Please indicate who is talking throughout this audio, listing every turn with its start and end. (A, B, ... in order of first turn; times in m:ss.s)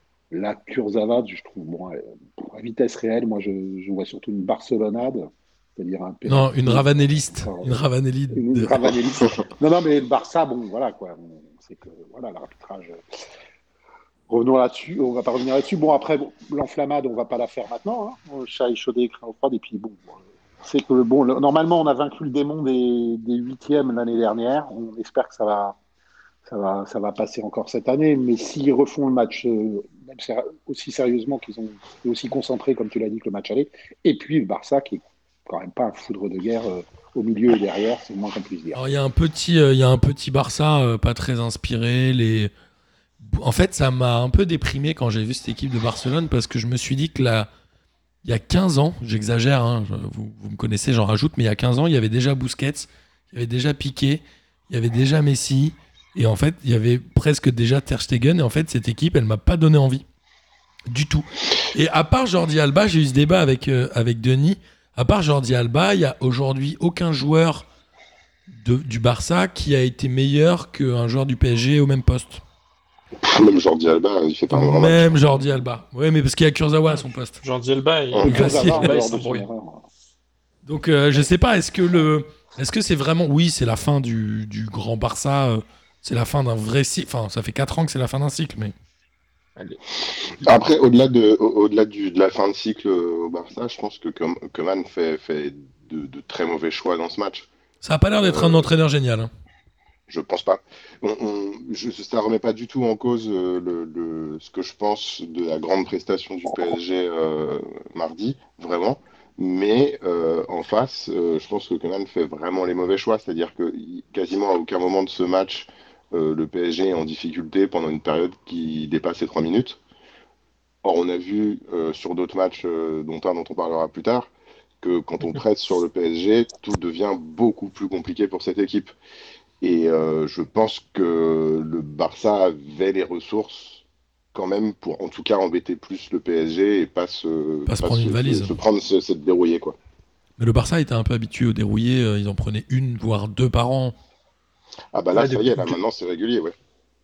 0:00.3-0:13.0 A
0:06.3-0:09.0 B
0:14.3-0:25.8 A
0:26.5-0:38.8 A
0:38.8-0:42.5 B
0:43.2-0:47.5 B
0:48.2-1:00.0 B
1:00.9-1:07.7 B
1:08.5-1:12.4 B
1:13.2-1:15.2 C
1:14.5-1:17.4 B
1:17.4-1:19.5 D
1:18.1-1:18.4 C
1:18.2-1:19.9 A
1:18.2-1:19.0 B
1:20.6-1:28.7 B
1:30.4-1:37.5 C
1:37.8-1:39.3 B
1:38.2-1:38.7 C
1:40.1-1:59.8 C
2:00.8-2:04.3 C
2:04.8-2:08.9 C
2:09.6-2:13.8 C
2:14.3-2:19.8 C
2:17.7-2:18.6 B
2:20.4-2:24.0 B
2:24.9-2:26.6 C
2:25.1-2:25.8 D